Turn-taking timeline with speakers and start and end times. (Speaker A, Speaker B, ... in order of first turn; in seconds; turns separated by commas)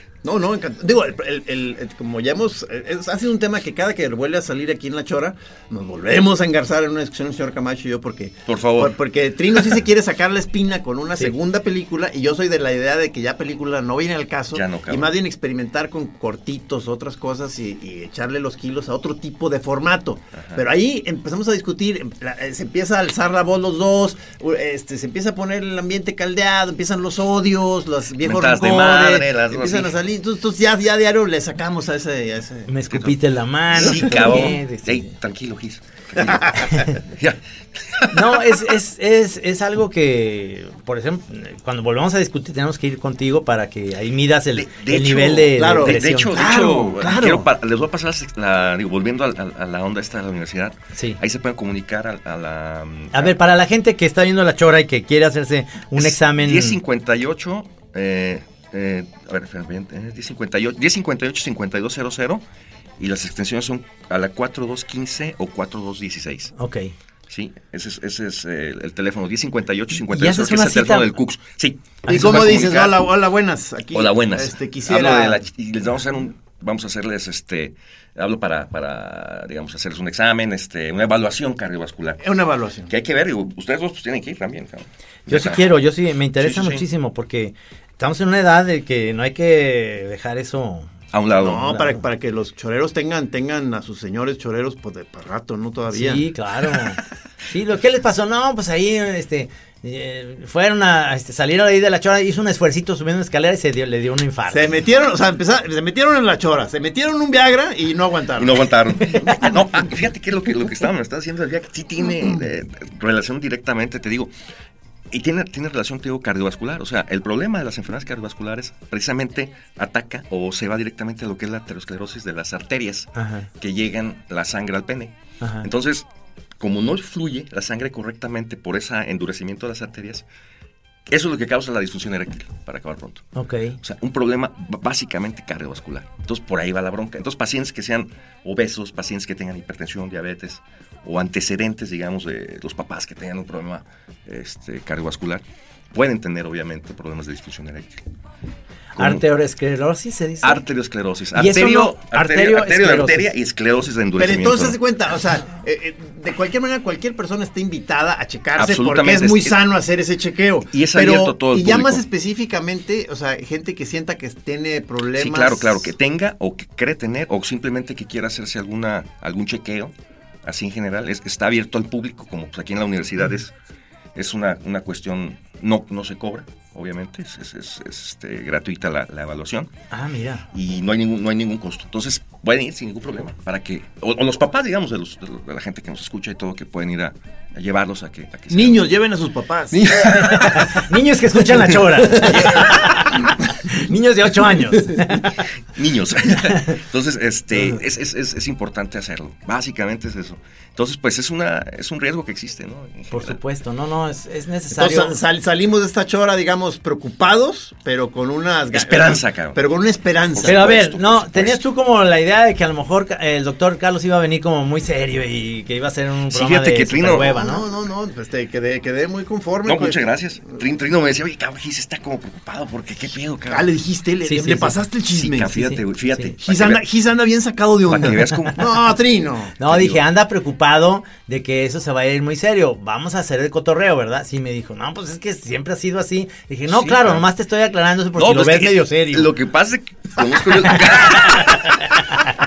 Speaker A: 0.2-32.7, Speaker B: 8.5-8.9, Speaker B: 14.5-15.1, Speaker B: 20.3-20.6, Speaker B: 28.2-29.9, Speaker C: 32.7-35.1, Speaker B: 33.7-38.4, Speaker A: 33.9-34.1, Speaker A: 36.2-36.6, Speaker C: 36.6-37.0, Speaker C: 38.1-46.5, Speaker B: 44.5-53.4, Speaker A: 45.5-47.5, Speaker C: 53.1-56.8, Speaker B: 56.0-62.4, Speaker B: 63.0-66.5, Speaker C: 66.6-66.9, Speaker B: 67.3-73.1, Speaker C: 70.1-71.1, Speaker C: 72.0-72.5, Speaker A: 72.1-75.4, Speaker B: 73.9-82.2, Speaker A: 82.2-82.9, Speaker B: 82.9-85.7, Speaker C: 85.3-90.9, Speaker B: 86.4-86.8, Speaker B: 91.1-91.7, Speaker A: 91.4-96.2, Speaker C: 91.6-92.0, Speaker C: 95.9-104.8, Speaker A: 104.5-109.5, Speaker B: 108.4-114.3, Speaker B: 115.1-126.0, Speaker C: 123.2-123.5, Speaker C: 125.4-125.7, Speaker B: 126.6-130.2, Speaker B: 131.1-133.3, Speaker C: 133.3-133.8, Speaker B: 133.8-145.4, Speaker B: 145.9-148.0, Speaker C: 148.9-150.6, Speaker B: 149.0-149.2, Speaker B: 150.4-154.8, Speaker C: 151.3-153.3, Speaker A: 154.2-165.9, Speaker B: 158.6-159.5, Speaker B: 160.7-162.0, Speaker B: 165.2-169.9, Speaker B: 170.4-173.5, Speaker B: 174.1-179.7, Speaker C: 179.9-180.4, Speaker B: 180.5-188.9, Speaker A: 188.5-189.8, Speaker B: 189.7-190.8, Speaker C: 190.1-195.3, Speaker A: 192.0-192.9, Speaker B: 192.1-192.9, Speaker B: 195.7-203.4, Speaker C: 196.4-196.7, Speaker C: 203.1-205.2, Speaker A: 204.7-210.8, Speaker B: 208.7-209.6, Speaker B: 210.3-211.6, Speaker C: 210.4-217.7, Speaker B: 216.3-217.4, Speaker A: 217.3-220.0, Speaker B: 219.6-223.7, Speaker A: 223.5-225.8, Speaker C: 224.2-224.8, Speaker B: 225.1-226.8, Speaker A: 226.4-229.6, Speaker B: 227.9-228.6, Speaker C: 229.6-239.3, Speaker B: 229.7-230.0, Speaker B: 236.7-237.2, Speaker B: 238.2-242.0, Speaker C: 241.4-242.3